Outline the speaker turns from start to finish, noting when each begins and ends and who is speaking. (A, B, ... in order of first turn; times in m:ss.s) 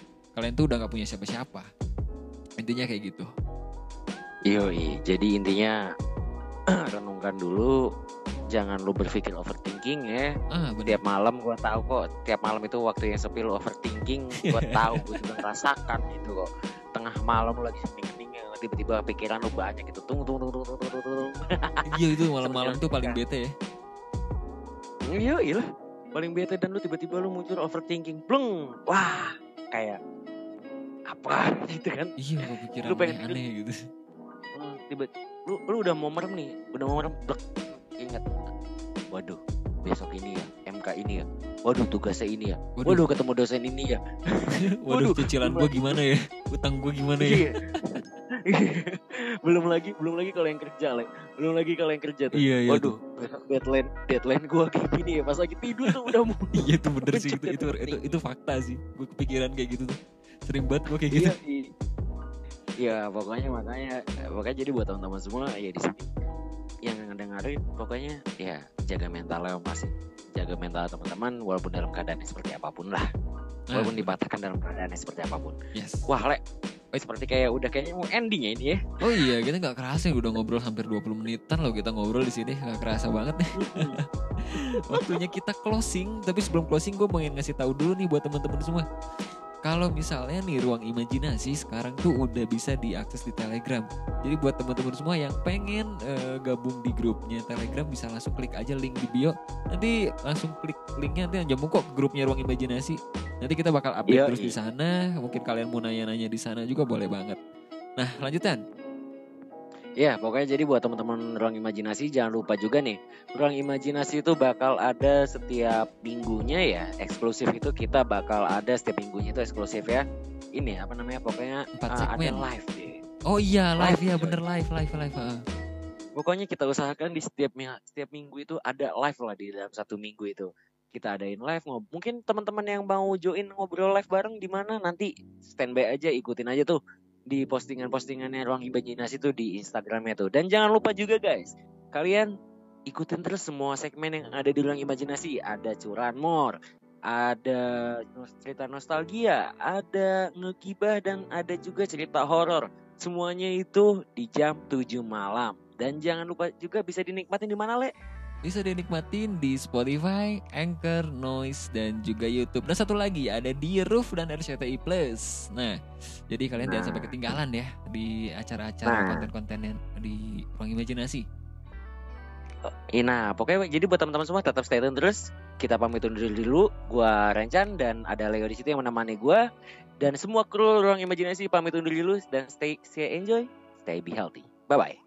0:00.4-0:01.7 A
0:02.6-0:03.3 A
0:04.5-0:05.8 B
0:06.7-0:07.8 B
0:08.5-0:10.3 B
0:10.5-0:11.0 A
0:10.8-0:23.2 B
0:14.5-0:15.4 A
0:21.9-0:23.5 A
0:25.1-0:30.0 B
0:31.1-0:33.4 B
0:32.2-0:33.8 A
0:34.6-0:38.3 B
0:39.1-0:45.8 B
0:42.8-0:43.0 A
0:44.6-0:47.5 A
0:47.2-0:56.6 B
0:52.4-0:52.9 A
0:55.8-1:01.4 A
0:57.1-0:58.1 B
1:01.1-1:01.7 B
1:02.8-1:06.1 B
1:06.9-1:13.1 B
1:13.7-1:14.1 A
1:13.7-1:15.6 B
1:15.8-1:16.1 A
1:16.1-1:16.4 B
1:16.9-1:19.0 B
1:19.0-1:28.8 A
1:23.6-1:24.0 B
1:24.6-1:25.2 B
1:29.7-1:47.4 A
1:44.1-1:44.6 B
1:48.0-1:48.6 A
1:50.0-2:00.0 B
2:00.6-2:03.0 B
2:01.8-2:02.4 A
2:03.3-2:05.4 A
2:03.8-2:04.4 B
2:06.2-2:16.8 B
2:17.3-2:22.3 B
2:22.9-2:26.6 B
2:27.1-2:37.9 B
2:38.4-2:45.8 A
2:46.3-2:51.2 A
2:46.6-2:47.1 B
2:48.9-2:49.3 B
2:52.9-2:59.4 B
3:00.0-3:05.0 B